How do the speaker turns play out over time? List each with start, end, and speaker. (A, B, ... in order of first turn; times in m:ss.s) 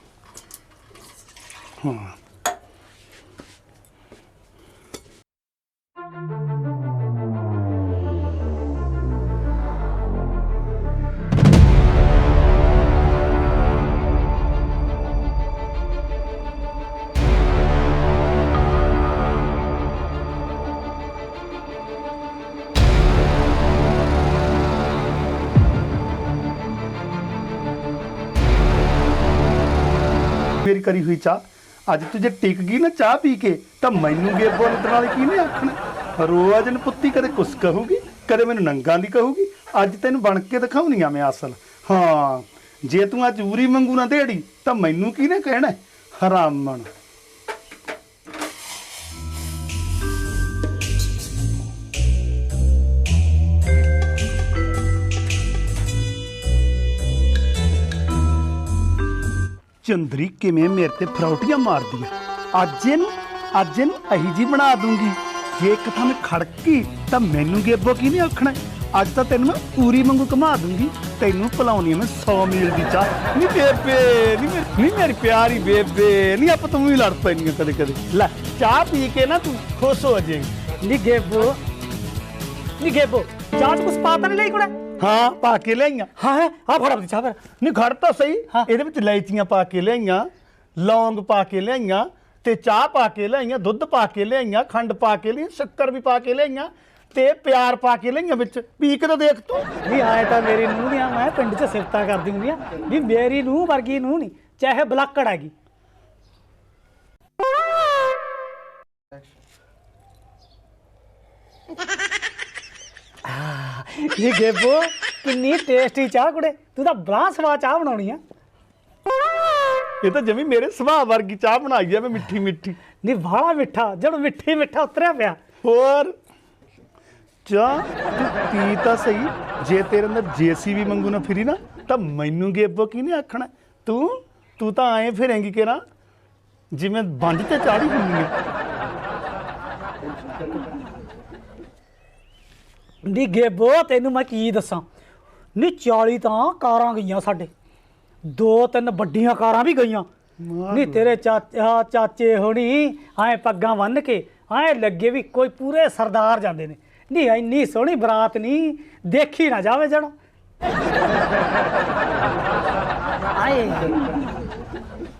0:01.8-0:02.2 A
0:30.6-0:46.9 A
0:59.8-1:20.5 A
1:20.8-1:21.6 B
1:22.8-1:24.7 B
1:25.0-1:26.1 A
1:26.2-1:27.5 B
1:27.6-1:39.7 A
1:39.8-1:45.5 B
1:53.2-1:58.2 B
2:00.0-2:02.8 A
2:03.0-2:05.4 B
2:05.6-2:06.1 A
2:07.4-2:15.8 A
2:16.7-2:18.3 A
2:23.0-2:24.8 B
2:25.6-2:27.5 B
2:28.3-2:30.1 B
2:30.4-2:31.1 A
2:30.7-2:40.1 B
2:43.3-2:44.0 B